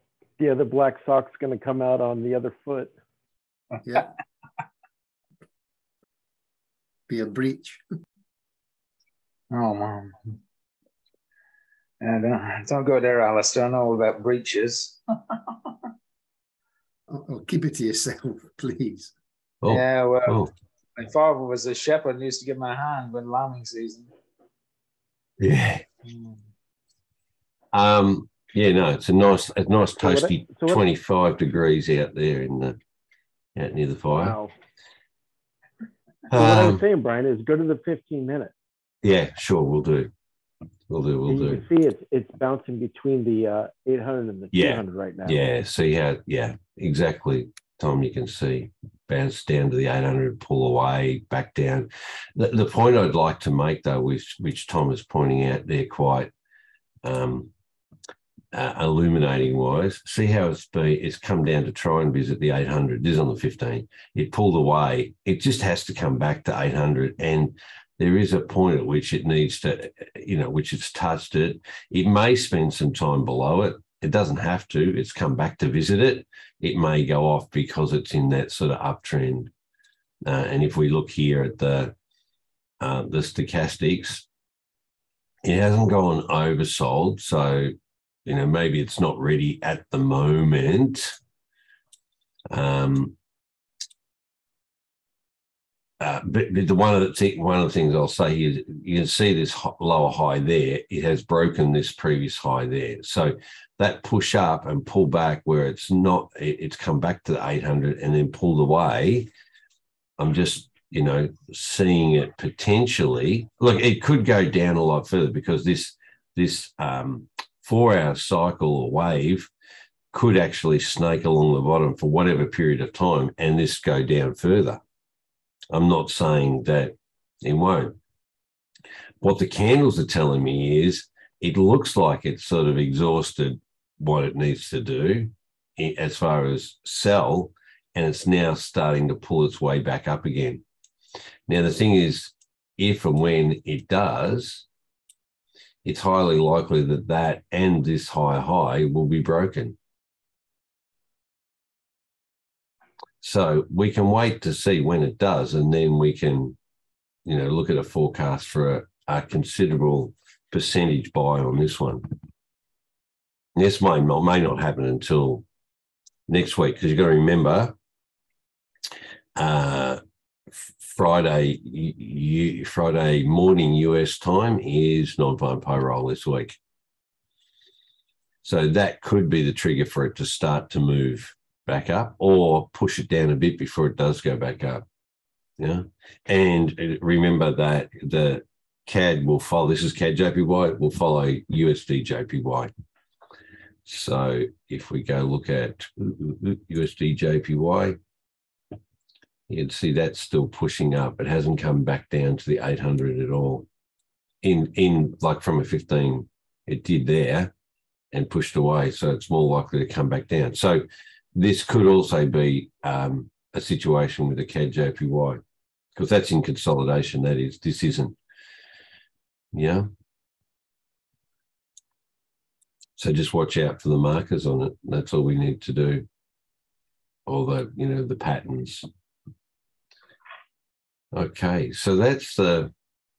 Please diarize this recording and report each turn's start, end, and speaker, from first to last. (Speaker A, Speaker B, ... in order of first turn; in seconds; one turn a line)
Speaker A: 0.4-2.9
Speaker B: 7.1-7.8
Speaker C: 9.5-10.2
Speaker C: 12.0-15.4
Speaker B: 17.1-19.1
Speaker D: 19.6-20.5
Speaker C: 19.7-20.4
Speaker C: 20.9-24.1
Speaker D: 25.4-25.8
Speaker D: 27.7-32.8
Speaker A: 30.0-30.8
Speaker D: 33.5-34.4
Speaker A: 34.1-34.5
Speaker D: 36.3-36.8
Speaker A: 36.3-38.5
Speaker D: 39.0-40.1
Speaker D: 40.9-41.6
Speaker A: 41.3-45.4
Speaker D: 44.5-56.3
Speaker D: 57.0-57.5
Speaker D: 58.5-79.5
Speaker D: 80.2-81.9
Speaker D: 82.8-84.2
Speaker D: 85.4-87.7
Speaker D: 88.2-91.2
Speaker D: 92.5-93.1
Speaker D: 96.0-109.3
Speaker D: 110.2-119.5
Speaker D: 120.1-124.8
Speaker D: 125.7-128.0
Speaker D: 129.2-140.6
Speaker D: 141.5-144.7
Speaker D: 145.8-149.8
Speaker D: 153.2-156.6
Speaker D: 157.2-162.1
Speaker D: 163.5-165.4
Speaker D: 166.3-167.7
Speaker D: 169.3-170.0
Speaker D: 170.5-176.6
Speaker D: 178.4-184.8
Speaker D: 185.6-192.7
Speaker D: 193.8-198.0
Speaker D: 199.5-203.7
Speaker D: 204.4-207.5
Speaker D: 208.1-215.4
Speaker D: 215.9-218.2
Speaker D: 219.5-219.9
Speaker D: 223.0-226.1
Speaker D: 227.3-228.9
Speaker D: 231.1-232.7